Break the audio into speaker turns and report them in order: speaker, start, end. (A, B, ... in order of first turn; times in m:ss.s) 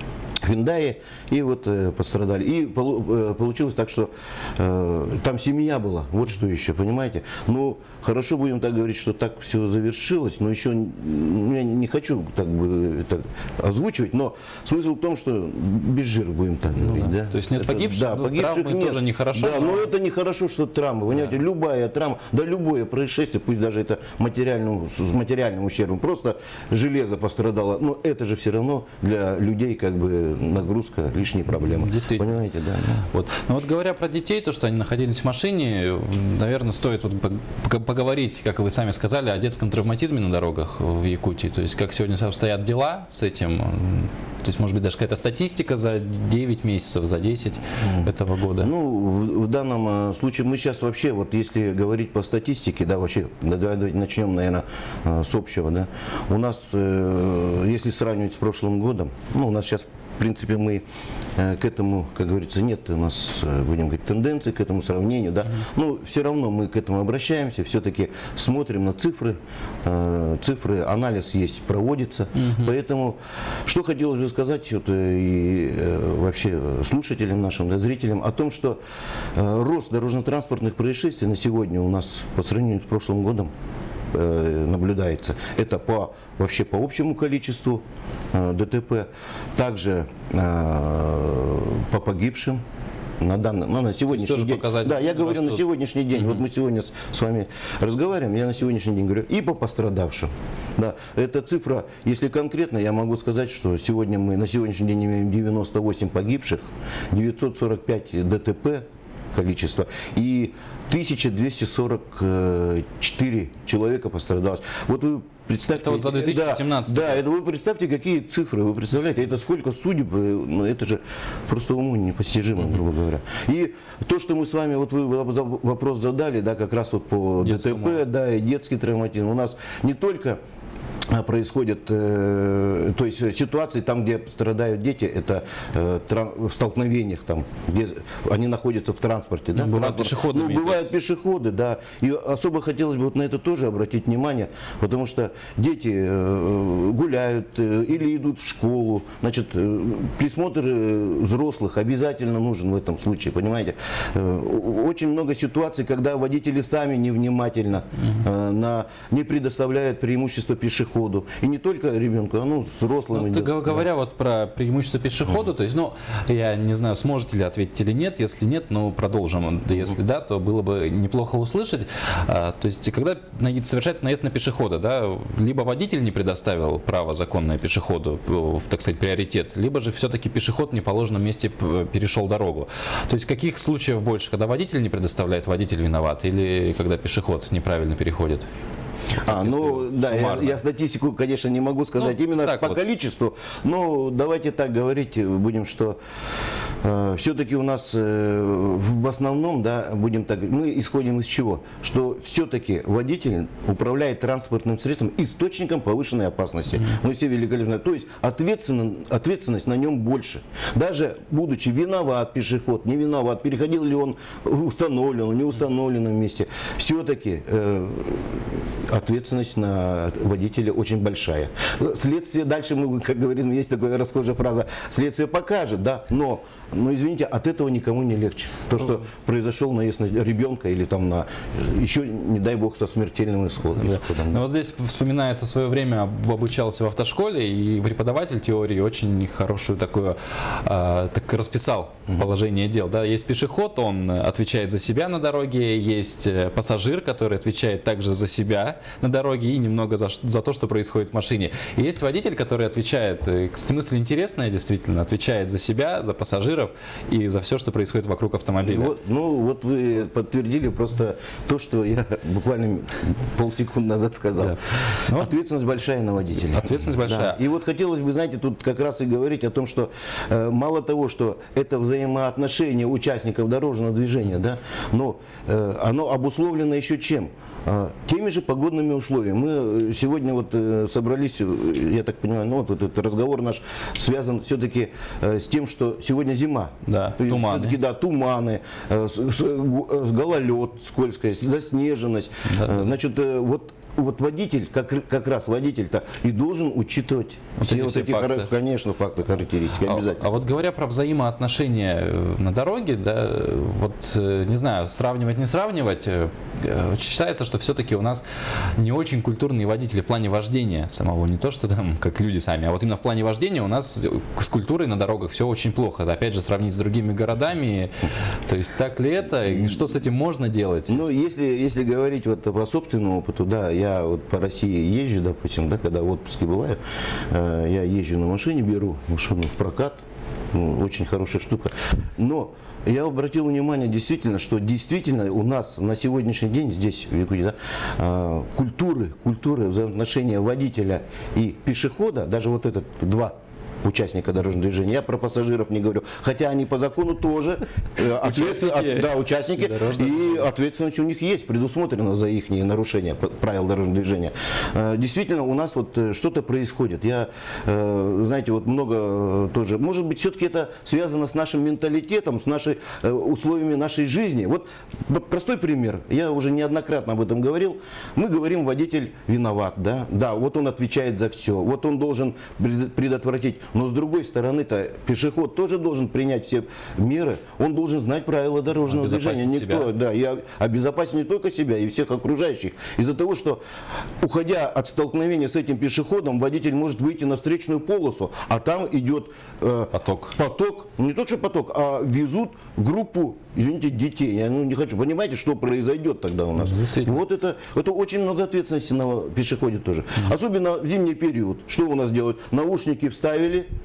0:00.4-0:33.1 A
0:16.8-0:19.9 B
0:21.1-0:21.4 B
0:31.7-0:32.4 B
0:33.1-0:48.7 B
0:47.8-0:48.1 A
0:48.6-1:00.8 A
1:01.4-1:18.8 A
1:12.4-1:12.7 B
1:19.3-1:23.5 A
1:24.1-1:27.8 A
1:28.3-1:32.6 A
1:33.2-2:10.4 A
1:34.1-1:35.6 B
1:36.2-1:36.4 B
1:55.8-1:57.2 B
2:07.4-2:08.0 B
2:11.1-2:43.8 A
2:19.5-2:20.9 B
2:43.1-3:08.5 B
3:09.2-3:16.0 A
3:09.3-3:10.6 B
3:12.0-3:12.9 B
3:16.8-3:54.4 A
3:53.8-4:18.9 B
4:18.6-4:24.6 A
4:24.4-4:25.3 B
4:25.1-5:00.2 A
4:26.5-4:27.4 B
4:46.8-4:47.8 B
4:52.5-4:52.9 B
4:57.6-4:58.5 B
4:59.8-5:08.2 B
5:08.8-5:17.9 B
5:18.5-5:21.1 B
5:20.9-5:26.8 A
5:27.3-5:30.0 A
5:30.5-6:23.6 A
5:48.2-5:50.5 B
6:18.8-6:19.9 B
6:24.2-6:43.6 A
6:29.9-6:30.4 B
6:36.6-6:37.2 B